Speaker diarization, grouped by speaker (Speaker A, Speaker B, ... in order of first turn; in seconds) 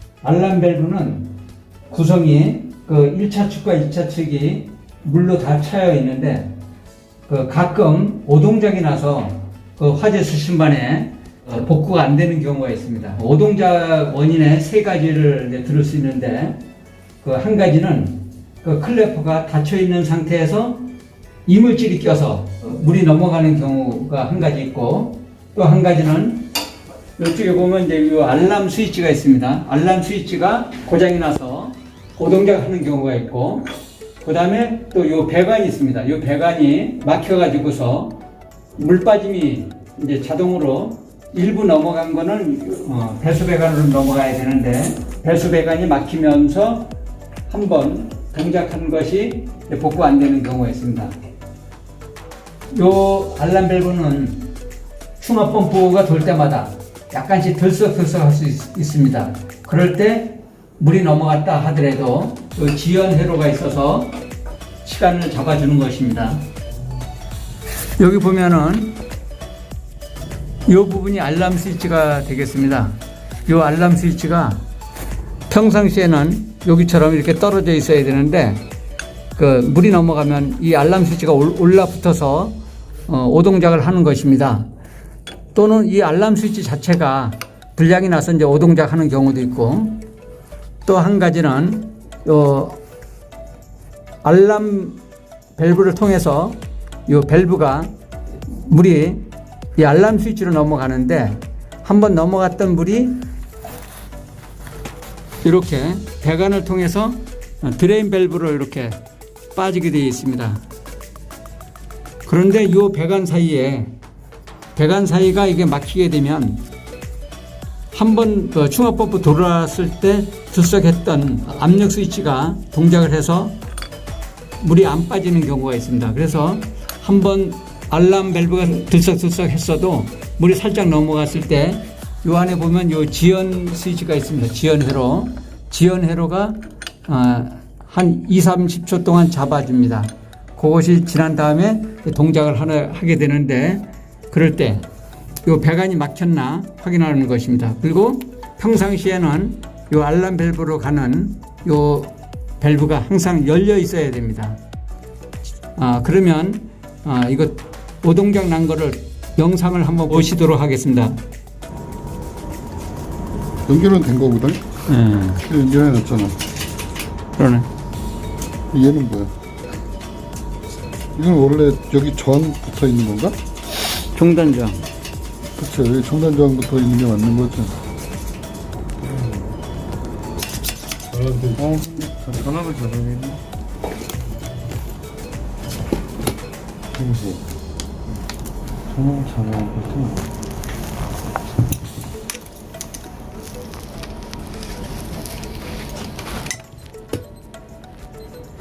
Speaker A: 0.2-1.3, 1.9-6.5, 7.3-16.6, 17.2-20.9, 21.4-26.5, 27.2-33.7, 34.2-38.2, 38.8-46.9, 47.5-51.1, 52.7-54.5, 55.2-64.2, 64.8-66.5, 68.0-69.0, 70.7-74.6, 75.5-78.6, 79.3-84.7, 85.5-90.0, 90.8-92.8, 94.2-95.0, 95.5-97.9, 98.4-103.2, 105.4-109.0, 109.5-110.6, 112.2-113.9, 114.8-116.6, 117.9-123.6, 124.6-144.8, 145.4-154.6, 155.8-161.2, 164.9-165.4, 167.4-167.7, 174.1-174.9
Speaker B: 163.7-164.6, 165.4-166.4, 168.7-169.3, 171.1-173.4, 175.6-177.8, 181.1-181.7
Speaker C: 179.0-179.5, 181.6-183.4, 186.9-187.4, 188.9-190.2